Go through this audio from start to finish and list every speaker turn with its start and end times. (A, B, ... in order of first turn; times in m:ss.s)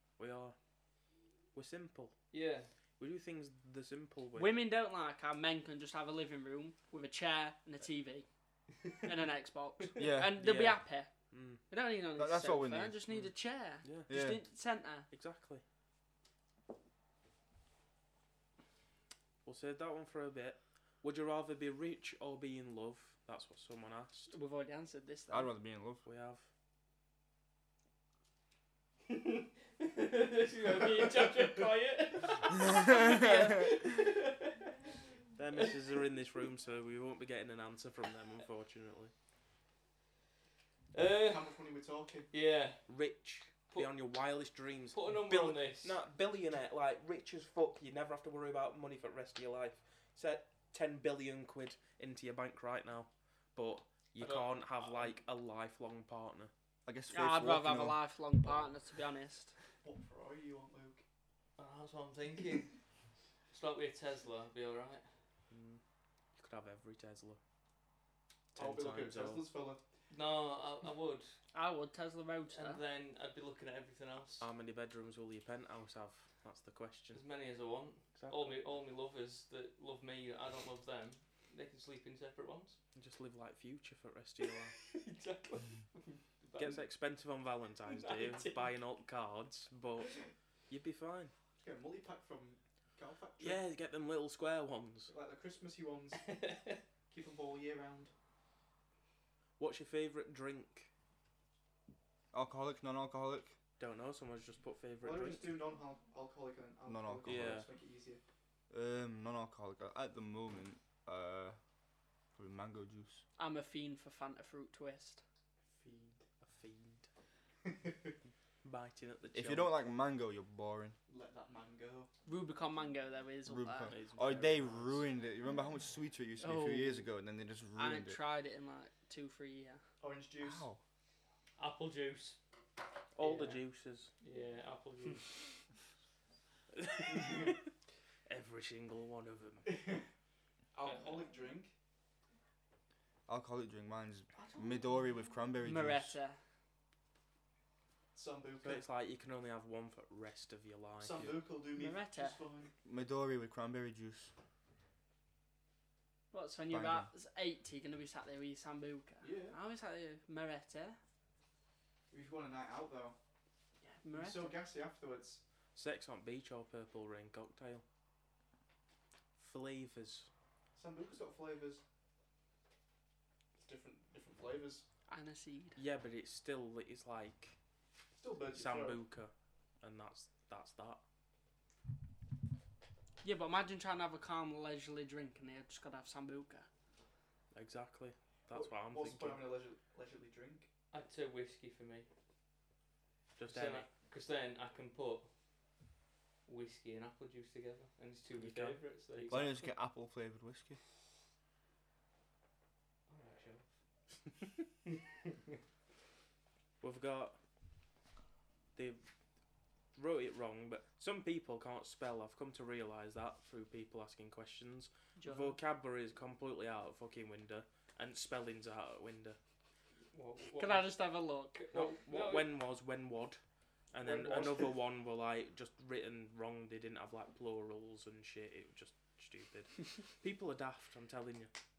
0:00.2-0:00.5 A
0:01.5-0:02.2 A
0:02.3-0:02.7 B
0:03.0-0:04.6 A
0:04.3-0:08.2 C
0:09.0-0:11.1 C
0:10.0-0:10.4 D
0:10.4-0:11.6 A
0:11.7-0:15.1 C
0:12.2-0:13.0 D
0:13.8-0:14.1 A
0:14.1-0:14.4 D
0:15.1-0:15.6 A
0:19.4-0:24.3 A
0:24.3-0:25.5 C
0:25.3-0:26.0 D
0:26.0-0:26.5 A
0:29.1-0:34.9 B
0:32.7-0:33.7 D
0:35.4-0:39.1 A
0:40.9-0:41.6 B
0:41.2-0:42.3 E
0:42.3-0:42.8 B
0:42.9-0:56.5 A
0:44.9-0:46.0 B
0:54.2-0:55.2 B
0:56.8-0:58.0 D
0:57.1-0:59.5 C
0:59.8-1:01.0 E
1:01.6-1:02.7 B
1:03.5-1:05.0 B
1:05.5-1:05.8 A
1:06.4-1:07.4 A
1:08.5-1:09.4 A
1:08.5-1:09.8 E
1:10.1-1:11.4 B
1:11.5-1:12.8 C
1:12.5-1:14.5 B
1:14.4-1:17.2 A
1:17.1-1:22.8 B
1:18.1-1:18.6 A
1:22.9-1:24.8 A
1:24.7-1:26.8 B
1:26.6-1:31.3 A
1:27.9-1:28.7 B
1:31.6-1:33.6 E
1:33.4-1:35.1 A
1:35.1-1:36.4 E
1:36.2-1:36.8 B
1:37.1-1:38.1 E
1:39.6-1:40.9 A
1:42.3-1:43.6 D
1:43.8-1:45.6 A
1:45.0-1:48.2 E
1:46.8-1:47.6 D
1:47.2-1:47.7 A
1:48.7-1:51.6 D
1:52.3-1:53.2 D
1:53.4-1:55.2 C
1:55.8-1:56.2 E
1:56.4-1:57.1 A
1:57.6-1:58.1 E
1:58.6-1:59.7 A
1:59.3-2:01.0 D
2:01.1-2:02.1 E
2:02.2-2:03.9 C
2:03.4-2:08.2 D
2:03.9-2:05.1 A
2:06.4-2:07.1 C
2:07.8-2:09.8 C
2:10.0-2:10.7 E
2:10.4-2:10.8 D
2:11.6-2:12.4 B
2:13.2-2:14.1 A
2:13.2-2:13.6 B
2:14.2-2:15.5 B
2:16.8-2:17.6 A
2:18.3-2:19.7 A
2:19.6-2:20.0 E
2:20.7-2:21.7 E
2:23.3-2:26.2 D
2:24.3-2:25.1 E
2:25.6-2:26.4 C
2:28.1-2:28.8 E
2:28.6-2:31.4 A
2:31.0-2:32.7 E
2:31.8-2:32.4 C
2:32.8-2:34.3 D
2:36.3-2:41.0 C
2:36.7-2:37.1 D
2:39.2-2:39.6 E
2:42.1-2:43.2 E
2:43.8-2:44.6 C
2:44.1-2:45.4 E
2:45.7-2:47.8 A
2:49.4-2:50.3 A
2:50.7-2:51.8 E
2:53.6-2:54.8 E
2:55.1-2:55.8 C
2:55.8-2:57.5 A
2:58.2-2:59.0 E
2:58.5-3:01.0 A
3:03.2-3:06.7 C
3:07.5-3:09.5 A
3:08.5-3:10.7 E
3:10.9-3:12.1 B
3:13.4-3:13.9 A
3:13.4-3:15.3 B
3:16.4-3:19.6 B
3:18.4-3:18.8 A
3:19.3-3:20.8 D
3:23.1-3:23.6 B
3:26.8-3:27.4 A
3:28.7-3:29.0 A
3:30.0-3:39.4 A
3:35.2-3:35.6 C
3:40.1-3:41.0 B
3:40.6-3:41.6 C
3:41.5-3:42.5 B
3:41.7-3:43.4 A
3:43.9-3:51.5 A
3:44.0-3:44.5 E